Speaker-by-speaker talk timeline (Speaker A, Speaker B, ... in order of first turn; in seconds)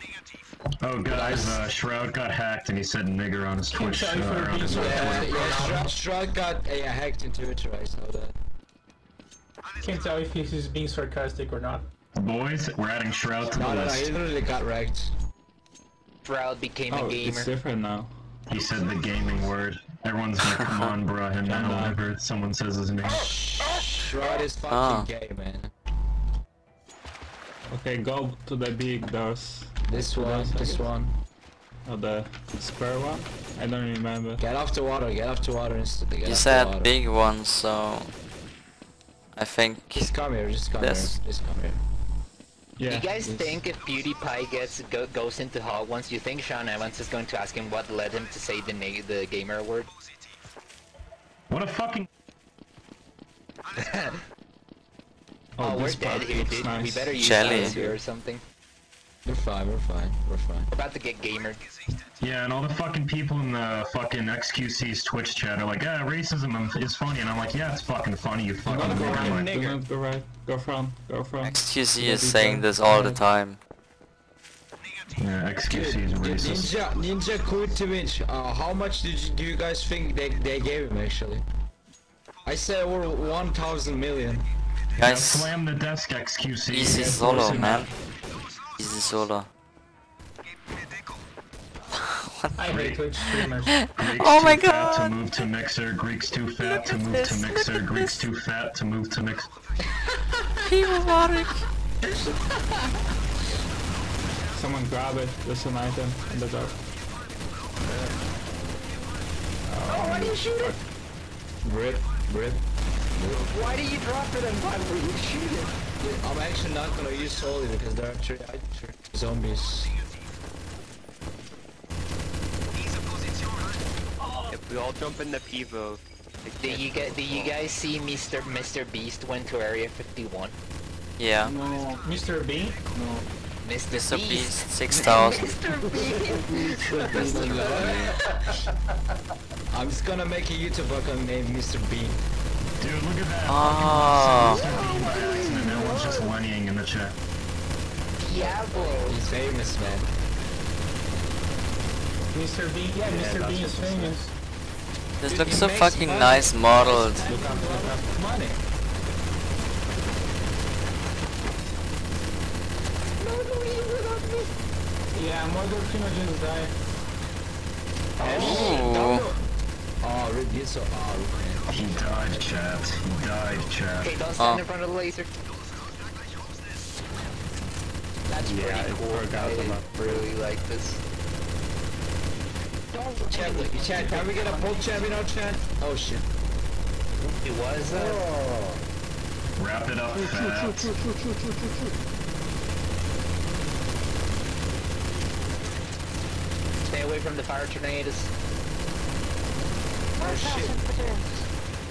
Speaker A: 0.8-5.8, 12.2-14.1, 18.5-23.3, 51.5-52.1, 62.2-69.5, 75.2-76.7, 85.0-87.4, 92.7-93.0, 93.9-99.5, 142.8-147.1, 171.7-174.1, 189.6-190.9
Speaker B: 1.1-1.5, 4.7-8.3, 13.5-15.1, 23.1-25.7, 29.9-31.1, 34.4-37.0, 39.9-41.8, 59.2-60.7, 68.8-69.4, 75.7-81.4, 82.4-84.5, 111.6-112.6, 113.2-113.4, 116.0-119.9, 136.5-138.2, 139.7-142.2, 148.3-150.1, 155.2-158.6, 168.2-169.3, 170.0-171.7, 183.1-186.3, 200.2-200.8
Speaker C: 3.7-5.8, 9.8-11.8, 69.3-69.8, 92.6-93.7, 131.4-132.9, 152.3-154.3, 165.1-166.7, 168.3-169.1
Speaker D: 16.2-17.5, 42.9-49.9, 53.7-54.1, 55.6-58.4, 60.7-61.6, 109.9-110.8, 113.4-115.7, 126.6-130.5, 133.6-138.4, 144.7-145.3, 148.2-149.2, 174.0-175.3, 178.3-181.0, 182.9-185.2, 187.4-188.3, 196.8-198.3
Speaker E: 16.9-18.1, 21.4-22.0, 27.7-30.9, 31.8-34.4, 42.8-43.6, 55.5-58.0, 68.6-73.2, 87.0-87.9, 104.5-106.8, 109.6-110.8, 152.9-154.2, 157.3-158.0, 178.4-180.3
Speaker F: 20.5-20.9, 24.7-25.1, 36.2-38.1, 39.3-40.1, 40.8-41.2, 57.1-57.8, 71.4-73.6, 85.0-85.5, 86.7-87.9, 88.8-89.5, 91.9-95.2, 96.6-98.2, 100.7-101.6, 131.2-131.6, 133.9-135.9, 137.1-138.1, 143.4-144.6, 155.2-157.3, 168.3-169.3, 174.4-174.6
Speaker G: 124.7-126.0, 200.2-201.3